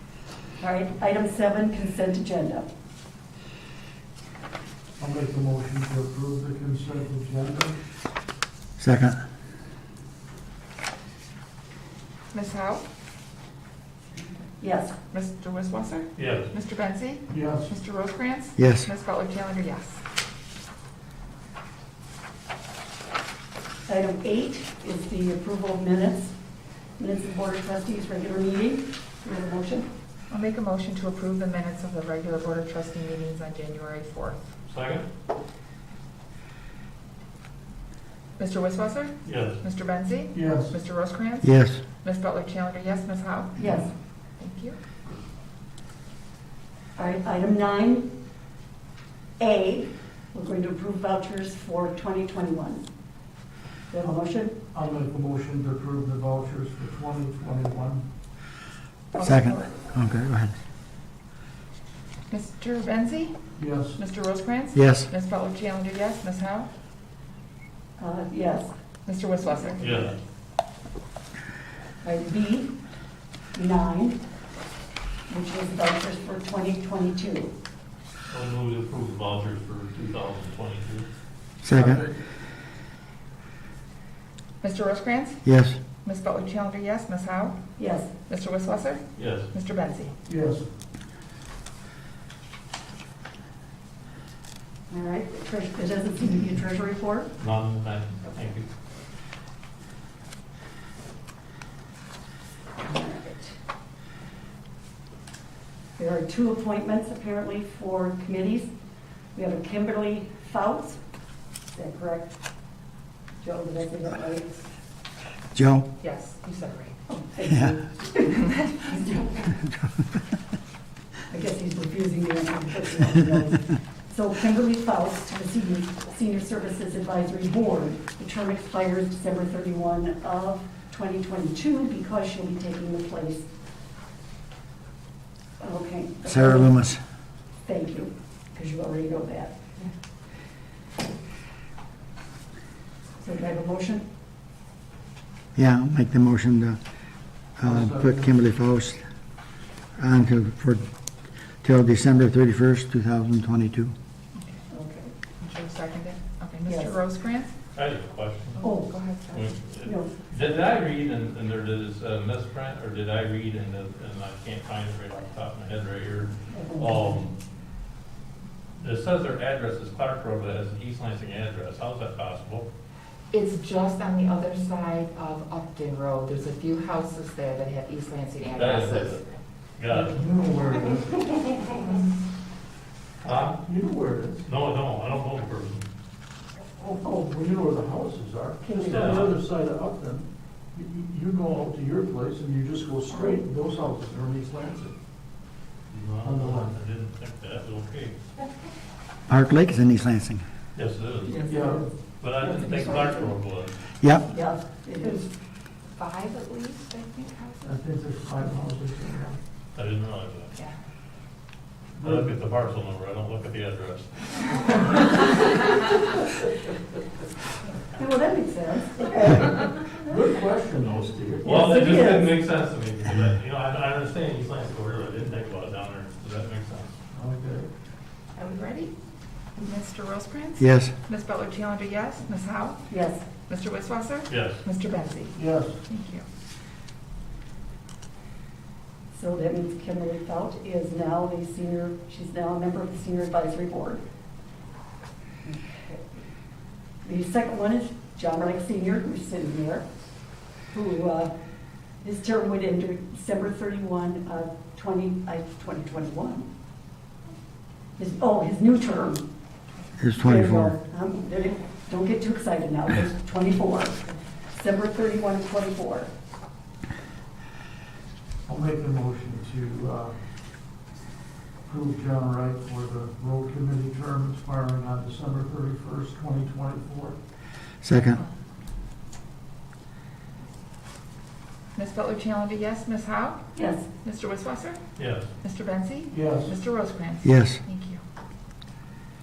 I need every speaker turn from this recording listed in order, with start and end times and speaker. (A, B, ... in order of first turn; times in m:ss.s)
0:00.6-0:02.7 A
0:05.0-0:07.8 B
0:08.8-0:09.2 C
0:12.3-0:12.8 D
0:14.6-0:15.0 A
0:15.1-0:20.0 D
0:16.2-0:16.5 E
0:17.3-0:17.7 B
0:18.6-0:18.9 C
0:23.9-0:26.4 A
0:27.0-0:29.9 A
0:30.3-0:34.4 D
0:34.7-0:35.1 E
0:38.4-0:43.9 D
0:39.2-0:39.6 E
0:40.3-0:40.8 B
0:41.4-0:41.8 C
0:43.6-0:43.9 A
0:44.4-0:44.8 D
0:47.0-0:48.1 A
0:49.4-0:52.8 A
0:53.9-0:54.6 A
0:54.7-0:58.0 B
0:59.2-0:59.6 D
0:59.2-1:00.5 C
1:02.3-1:03.4 D
1:03.6-1:04.0 B
1:04.0-1:06.7 D
1:04.8-1:05.1 C
1:08.0-1:08.7 A
1:09.1-1:10.0 D
1:09.4-1:10.2 A
1:09.8-1:10.2 E
1:12.0-1:12.8 A
1:13.6-1:14.2 A
1:15.3-1:17.5 A
1:18.3-1:21.1 E
1:21.6-1:22.0 C
1:21.7-1:22.1 B
1:24.6-1:25.4 D
1:25.4-1:25.8 C
1:26.0-1:27.6 D
1:27.8-1:28.1 A
1:28.3-1:30.1 D
1:29.2-1:29.5 E
1:30.3-1:30.7 B
1:34.9-1:37.3 A
1:37.4-1:38.7 E
1:42.8-1:43.6 A
1:46.0-1:48.7 A
1:49.4-1:51.0 A
1:51.8-1:52.3 A
1:53.4-1:54.7 A
1:55.5-1:55.9 C
1:56.0-1:57.0 D
1:57.1-1:59.4 A
1:58.4-1:58.7 D
2:01.3-2:13.5 A
2:15.6-2:16.8 A
2:16.3-2:17.0 C
2:17.6-2:19.6 A
2:23.2-2:24.0 A
2:25.6-2:26.8 C
2:27.6-2:29.0 C
2:27.6-2:28.3 B
2:30.0-2:30.8 C
2:31.6-2:33.9 C
2:34.4-2:34.6 D
2:34.7-2:35.1 A
2:35.4-2:37.6 D
2:36.7-2:37.0 A
2:37.8-2:38.6 E
2:38.6-2:39.5 D
2:38.6-2:38.9 A
2:39.3-2:47.4 E
2:39.8-2:40.1 A
2:46.5-2:47.2 A
2:48.8-2:52.7 E
2:53.3-2:59.2 D
2:58.6-2:59.2 E
2:59.8-3:00.2 E
2:59.9-3:01.5 B
3:03.2-3:03.6 E
3:03.6-3:04.5 B
3:04.5-3:05.9 E
3:06.8-3:15.0 B
3:08.8-3:09.4 E
3:15.9-3:18.2 E
3:16.2-3:16.8 B
3:19.3-3:20.4 C
3:20.8-3:21.5 E
3:21.3-3:21.9 A
3:21.5-3:21.9 B
3:22.2-3:23.7 E
3:22.4-3:23.3 A
3:24.0-3:24.3 C
3:24.3-3:25.3 A
3:26.0-3:27.8 D
3:27.6-3:29.4 B
3:29.8-3:30.6 E
3:32.0-3:32.3 B
3:32.0-3:35.0 E
3:38.0-3:40.1 A
3:39.9-3:41.7 B
3:41.4-3:46.9 E
3:41.5-3:42.4 A
3:47.1-3:47.7 B
3:48.4-3:48.9 D
3:49.6-3:56.2 D
3:50.6-3:50.9 C
3:52.9-3:53.3 A
3:54.3-3:54.6 E
3:55.3-3:55.8 B
3:59.1-4:04.0 A
4:05.4-4:06.1 A
4:07.0-4:09.9 A
4:10.7-4:11.3 A
4:12.0-4:16.5 A
4:18.0-4:19.2 A
4:20.0-4:20.7 C
4:20.2-4:24.0 A
4:24.6-4:26.1 A
4:28.5-4:30.2 B
4:31.7-4:37.2 B
4:37.8-4:38.2 C
4:41.8-4:43.5 D
4:43.6-4:43.9 A
4:44.0-4:44.8 D
4:45.0-4:45.3 E
4:45.4-4:48.0 D
4:46.1-4:46.5 B
4:47.2-4:47.6 C